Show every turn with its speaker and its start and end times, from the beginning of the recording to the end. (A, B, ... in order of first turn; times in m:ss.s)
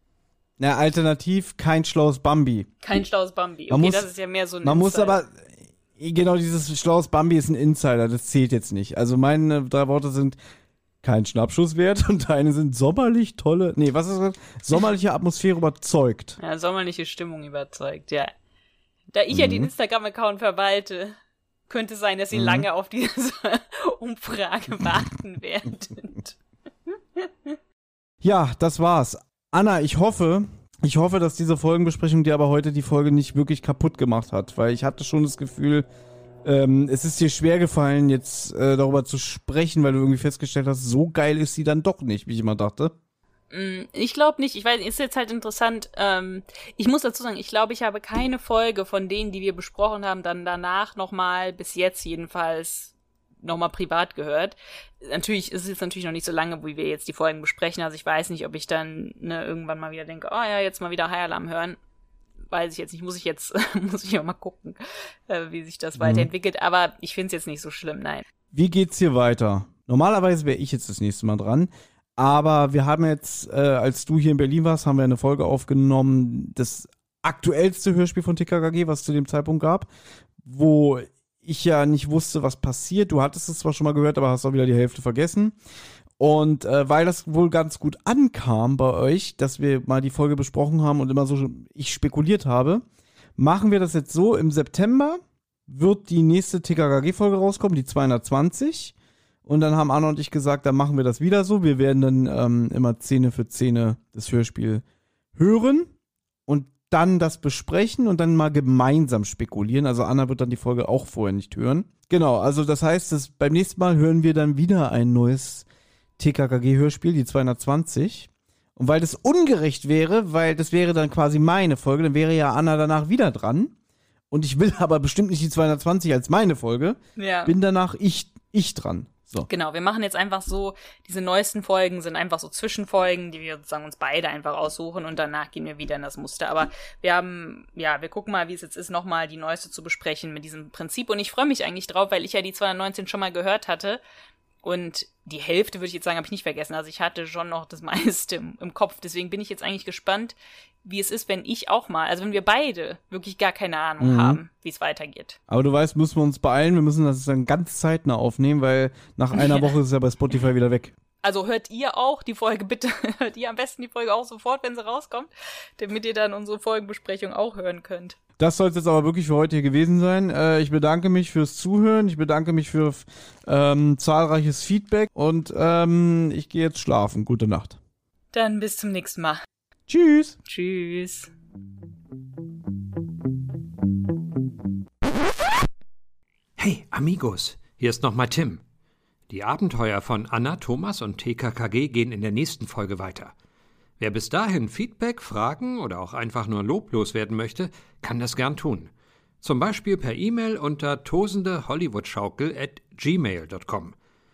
0:00.6-0:02.7 A
0:02.8-0:05.2 B
0:03.7-0:04.1 A
0:04.6-0:10.4 A
0:11.0-0:16.4 A
0:16.4-0:18.3 B
0:19.1-0:21.2 B
0:19.3-0:19.7 A
0:21.7-0:26.4 B
0:22.3-0:22.6 A
0:27.2-0:27.5 B
0:28.2-0:35.9 A
0:36.4-0:42.9 A
0:43.5-1:01.8 B
1:02.5-1:08.3 B
1:06.0-1:06.3 A
1:08.5-1:19.9 A
1:20.4-1:25.6 A
1:26.2-1:32.8 A
1:33.4-1:38.9 A
1:39.4-1:44.8 A
1:45.4-1:45.9 A
1:46.5-1:55.6 A
1:56.2-2:03.7 A
2:04.3-2:09.5 A
2:07.2-2:07.5 B
2:09.5-2:24.0 B
2:24.6-2:35.4 B
2:34.0-2:34.4 A
2:35.5-2:40.9 A
2:39.3-2:39.7 B
2:41.2-2:48.2 B
2:48.4-2:57.8 A
2:58.3-2:59.4 B
2:59.9-3:00.4 A
3:00.5-3:01.3 B
3:06.6-3:08.6 C
3:09.3-3:13.3 C
3:14.0-3:24.0 C